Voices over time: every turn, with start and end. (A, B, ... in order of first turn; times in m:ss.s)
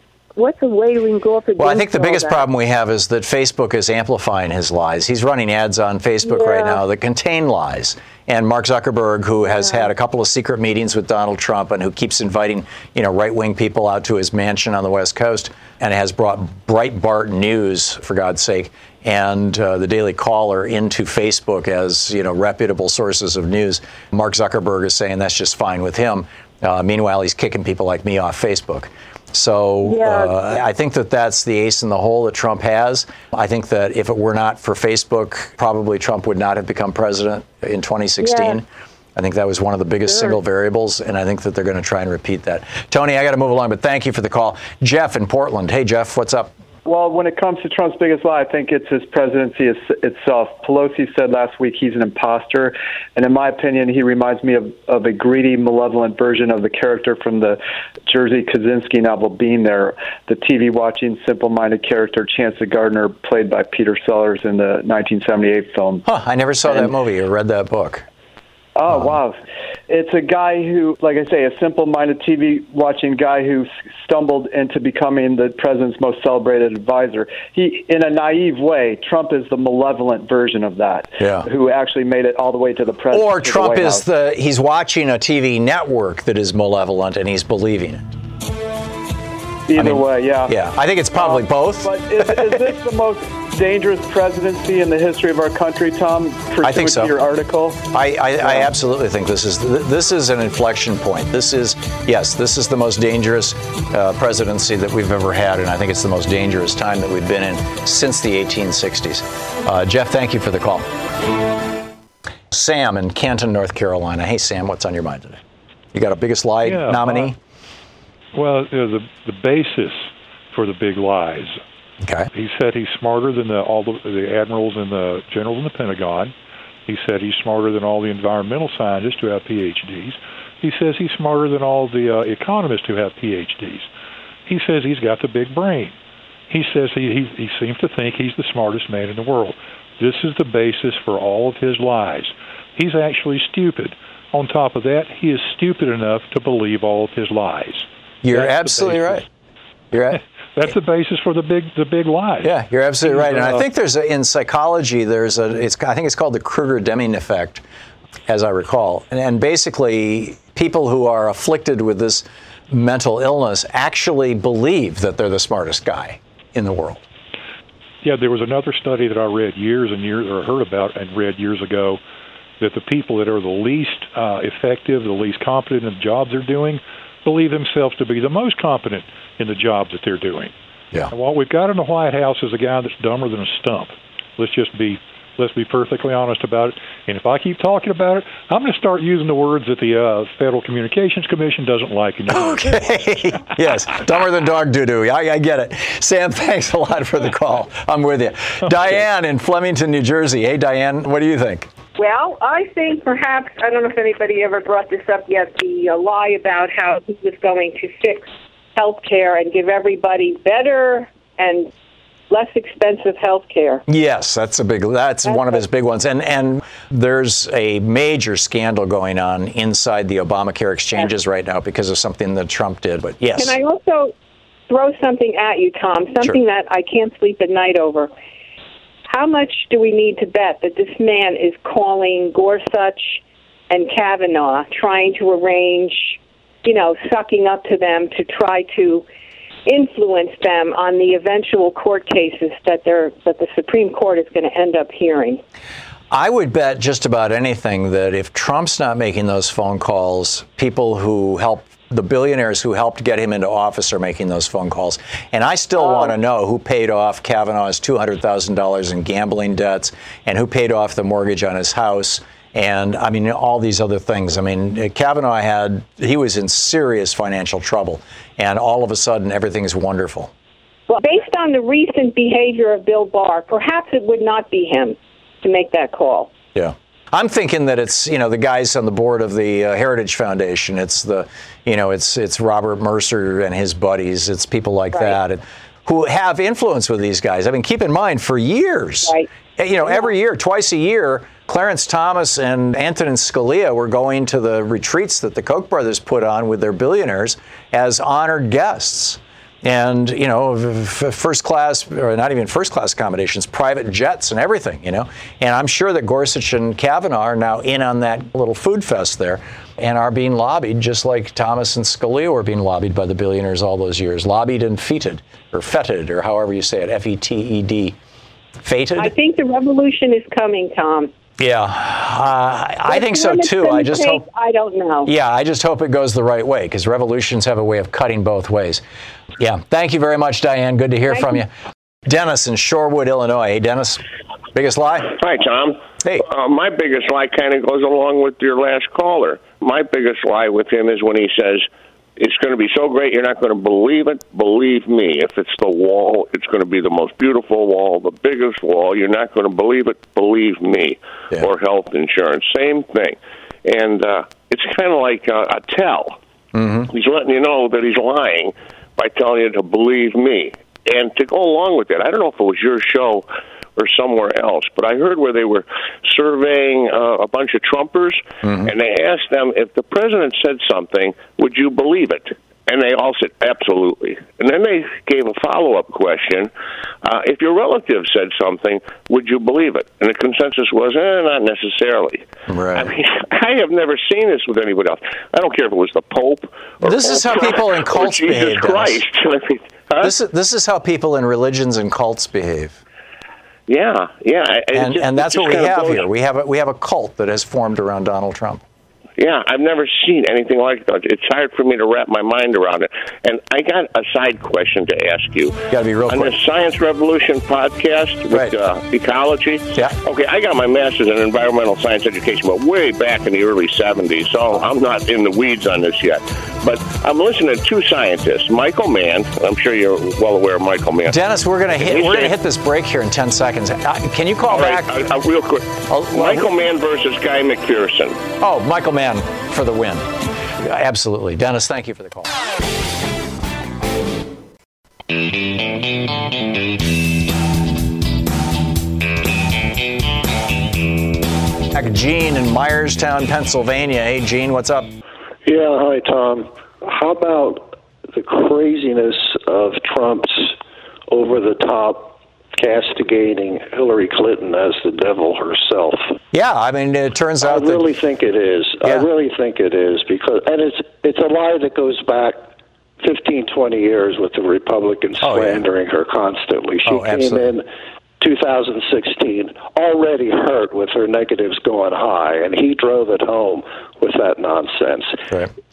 0:00.4-0:02.4 A
0:01.6-0:46.5 B
0:06.2-0:06.8 A
0:09.5-0:09.9 A
0:29.9-0:30.4 A
0:38.2-0:38.5 A
0:40.1-0:40.3 A
0:46.8-1:06.0 C
1:06.0-1:08.0 B
1:08.8-1:09.4 C
1:09.9-1:24.0 C
1:21.2-1:21.5 B
1:23.1-1:28.0 B
1:29.7-1:30.5 C
1:29.8-1:32.0 B
1:31.1-1:37.8 C
1:36.6-1:37.1 B
1:37.9-1:50.9 B
1:38.4-1:38.7 C
1:52.5-1:55.4 B
1:55.9-1:57.4 B
1:56.6-1:57.3 D
1:58.3-2:01.6 D
2:02.0-2:02.3 B
2:02.3-2:06.3 D
2:06.9-2:13.9 D
2:14.5-2:16.0 D
2:16.5-2:29.3 D
2:28.2-2:29.2 B
2:29.9-2:30.7 B
2:30.1-2:33.7 D
2:32.4-2:37.6 B
2:38.3-2:47.0 B
2:48.0-2:52.0 D
2:52.6-3:00.5 D
3:01.1-3:12.9 D
3:12.3-3:21.7 B
3:22.0-3:31.7 E
3:32.3-3:33.8 E
3:33.9-3:43.6 B
3:43.4-3:44.1 E
3:44.7-3:48.1 E
3:49.1-3:53.2 E
3:53.7-3:59.0 E
3:59.6-4:05.4 E
4:06.1-4:30.3 B
4:15.8-4:16.0 A
4:30.9-4:36.3 E
4:36.6-5:17.9 B
4:44.9-4:45.2 E
4:49.0-4:49.3 E
5:18.6-5:19.1 B
5:19.0-5:21.1 E
5:21.4-5:24.2 B
5:22.9-5:25.1 E
5:25.0-5:28.8 B
5:29.4-5:31.5 B
5:31.1-5:31.4 E
5:32.0-5:34.0 B
5:34.5-5:35.2 B
5:35.1-5:56.2 F
5:56.5-5:56.9 B
5:56.9-6:16.5 F
6:08.4-6:08.7 B
6:17.0-6:22.2 F
6:22.5-6:22.9 B
6:22.7-6:30.1 F
6:26.8-6:29.0 B
6:30.0-6:32.8 B
6:33.7-6:36.1 F
6:34.7-6:38.6 B
6:39.2-7:01.2 F
6:45.7-6:46.3 B
7:01.1-7:04.9 B
7:01.7-7:02.3 F
7:04.5-7:08.2 F
7:05.9-7:06.5 B
7:08.4-7:10.1 B
7:10.6-7:12.4 B
7:21.7-7:24.9 B
7:25.4-7:30.6 G
7:31.1-7:36.2 G
7:36.3-7:37.9 B
7:37.4-7:42.5 G
7:43.0-7:47.6 G
7:45.2-7:45.6 B
7:46.8-7:47.5 B
7:48.2-7:55.2 G